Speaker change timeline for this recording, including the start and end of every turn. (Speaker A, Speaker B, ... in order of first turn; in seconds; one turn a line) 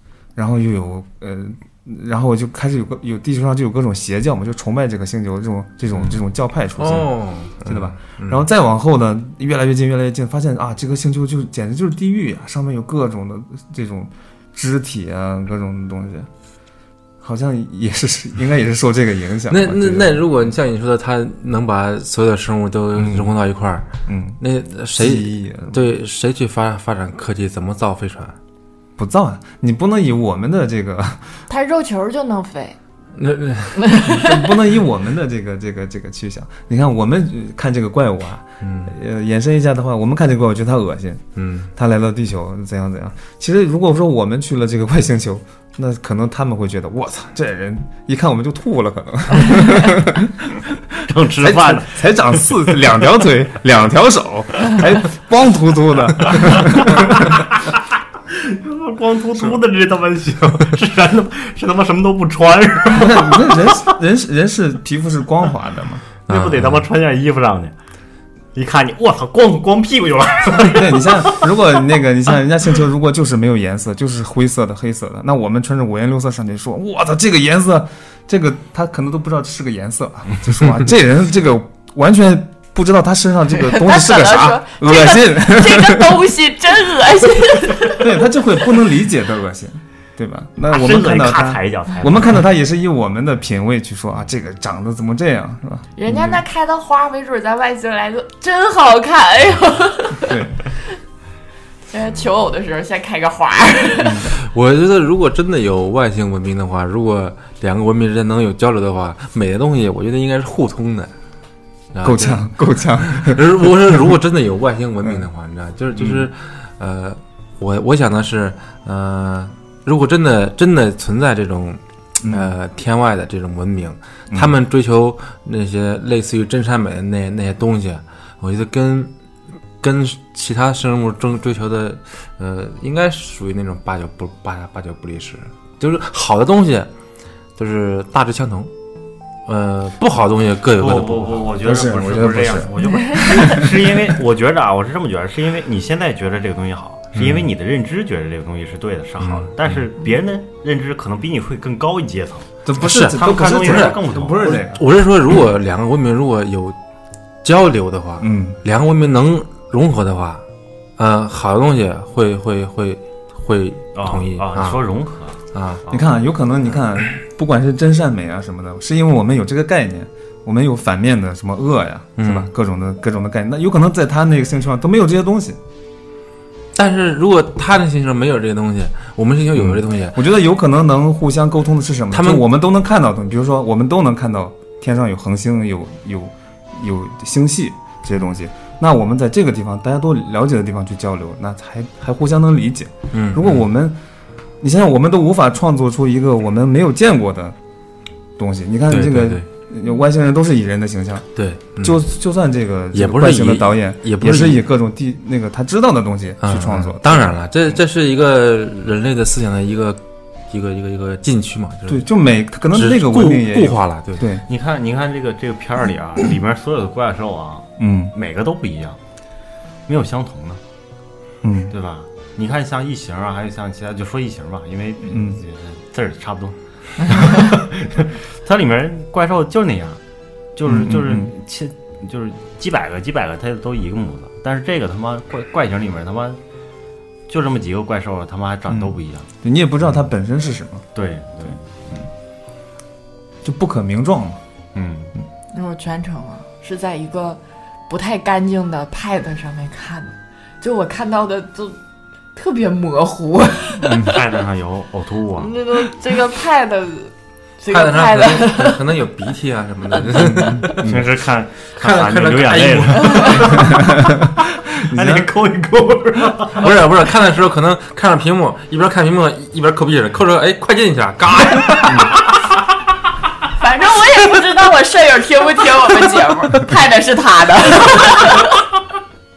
Speaker A: 0.3-16.3
Speaker B: 6.8-8.4
Speaker A: 17.2-20.2
Speaker B: 19.5-23.9
Speaker A: 22.9-23.3
Speaker A: 24.1-24.4
Speaker B: 24.4-28.4
Speaker A: 24.9-25.9
Speaker A: 29.0-31.4
Speaker C: 31.5-32.8
Speaker B: 33.1-34.0
Speaker C: 33.8-34.4
Speaker A: 34.0-50.6
Speaker B: 38.6-38.9
Speaker B: 41.4-41.7
Speaker D: 50.9-52.6
Speaker A: 51.4-57.4
Speaker D: 56.2-57.8
Speaker D: 58.3-63.8
Speaker A: 62.9-66.1
Speaker D: 66.3-67.7
Speaker B: 66.3-66.8
Speaker D: 68.5-71.4
Speaker A: 70.6-86.2
Speaker C: 83.5-88.3
Speaker A: 87.9-96.4
Speaker D: 90.7-92.4
Speaker C: 96.0-100.8
Speaker A: 100.2-100.6
Speaker C: 101.9-104.3
Speaker A: 104.0-104.3
Speaker B: 104.3-111.1
Speaker B: 111.9-129.1
Speaker A: 112.0-114.1
Speaker A: 115.0-115.3
Speaker A: 116.0-116.3
Speaker A: 122.2-122.5
Speaker B: 129.8-136.9
Speaker B: 137.6-138.7
Speaker B: 139.4-141.5
Speaker D: 140.8-154.6
Speaker A: 141.6-143.9
Speaker C: 143.0-143.3
Speaker B: 147.1-147.4
Speaker B: 149.2-149.5
Speaker A: 152.6-154.8
Speaker B: 152.8-156.8
Speaker B: 157.4-160.4
Speaker A: 158.2-158.6
Speaker B: 161.0-164.8
Speaker D: 163.9-166.1
Speaker B: 165.5-165.8
Speaker A: 165.9-175.6
Speaker B: 172.2-172.5
Speaker B: 176.7-180.2
Speaker A: 179.5-194.0
Speaker B: 182.1-182.4
Speaker B: 193.1-193.6
Speaker A: 194.6-197.6
Speaker A: 198.4-207.7
Speaker B: 198.9-199.4
Speaker B: 201.3-202.0
Speaker B: 202.9-204.6
Speaker B: 206.4-212.0
Speaker A: 211.9-214.4
Speaker B: 212.7-214.2
Speaker D: 214.4-219.0
Speaker A: 217.8-218.1
Speaker D: 219.9-220.6
Speaker A: 221.4-221.7
Speaker D: 221.7-230.0
Speaker A: 225.1-225.4
Speaker D: 230.5-236.4
Speaker A: 230.7-231.3
Speaker D: 237.3-239.3
Speaker A: 238.7-240.8
Speaker D: 240.9-242.0
Speaker A: 243.4-244.4
Speaker D: 244.7-245.1
Speaker C: 245.5-251.8
Speaker C: 252.3-254.2
Speaker A: 253.8-254.1
Speaker D: 254.0-255.5
Speaker C: 255.4-259.0
Speaker B: 257.7-260.9
Speaker C: 259.9-260.7
Speaker A: 260.1-261.0
Speaker D: 260.8-266.7
Speaker B: 261.8-263.6
Speaker C: 263.0-263.4
Speaker A: 263.7-264.2
Speaker A: 264.9-265.3
Speaker B: 266.6-272.2
Speaker C: 273.6-278.6